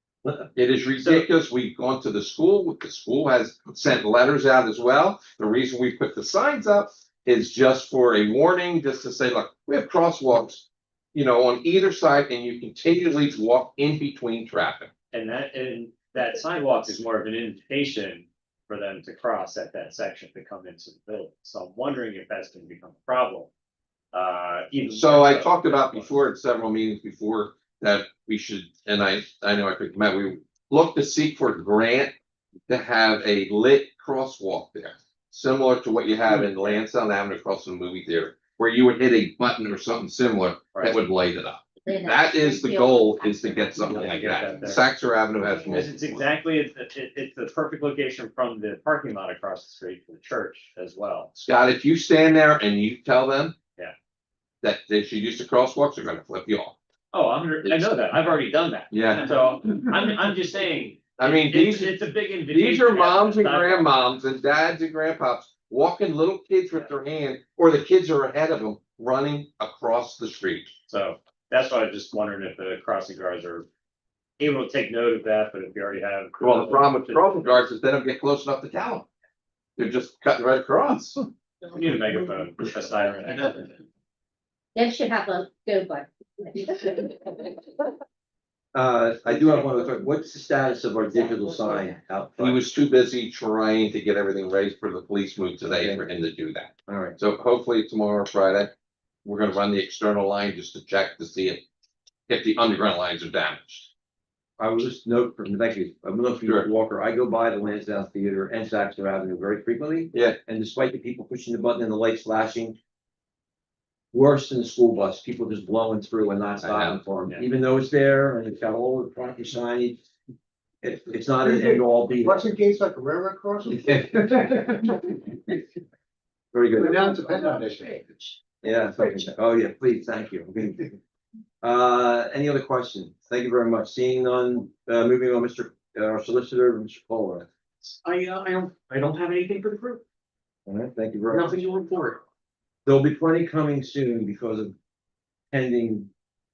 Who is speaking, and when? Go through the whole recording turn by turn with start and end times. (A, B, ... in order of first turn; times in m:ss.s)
0:00.6-0:14.9 A
0:01.0-0:01.3 B
0:15.1-0:23.5 B
0:24.1-0:26.2 B
0:24.9-0:32.1 A
0:32.7-0:46.2 A
0:36.3-0:36.8 B
0:41.8-0:44.4 C
0:43.9-0:44.8 B
0:45.7-0:51.3 B
0:51.4-0:53.6 A
0:54.6-0:56.8 A
0:57.1-1:04.0 B
0:58.9-0:59.3 A
1:01.2-1:01.9 A
1:02.5-1:10.7 A
1:10.9-1:13.7 B
1:14.4-1:17.6 B
1:16.4-1:19.1 A
1:19.8-1:21.2 A
1:21.7-1:23.7 B
1:24.8-1:27.6 C
1:28.7-1:32.6 D
1:31.3-1:31.9 C
1:32.4-1:38.7 A
1:35.6-1:36.1 D
1:36.9-1:37.2 D
1:39.2-1:41.6 A
1:42.3-1:43.9 A
1:44.6-1:52.8 D
1:54.1-2:00.0 D
1:56.6-1:57.0 A
2:00.8-2:02.5 D
2:01.4-2:04.9 E
2:06.5-2:07.2 D
2:06.7-2:08.3 E
2:08.6-2:11.0 D
2:11.6-2:17.5 D
2:17.9-2:20.0 F
2:20.7-2:21.6 D
2:21.3-2:22.2 F
2:22.8-2:24.8 D
2:25.5-2:26.1 D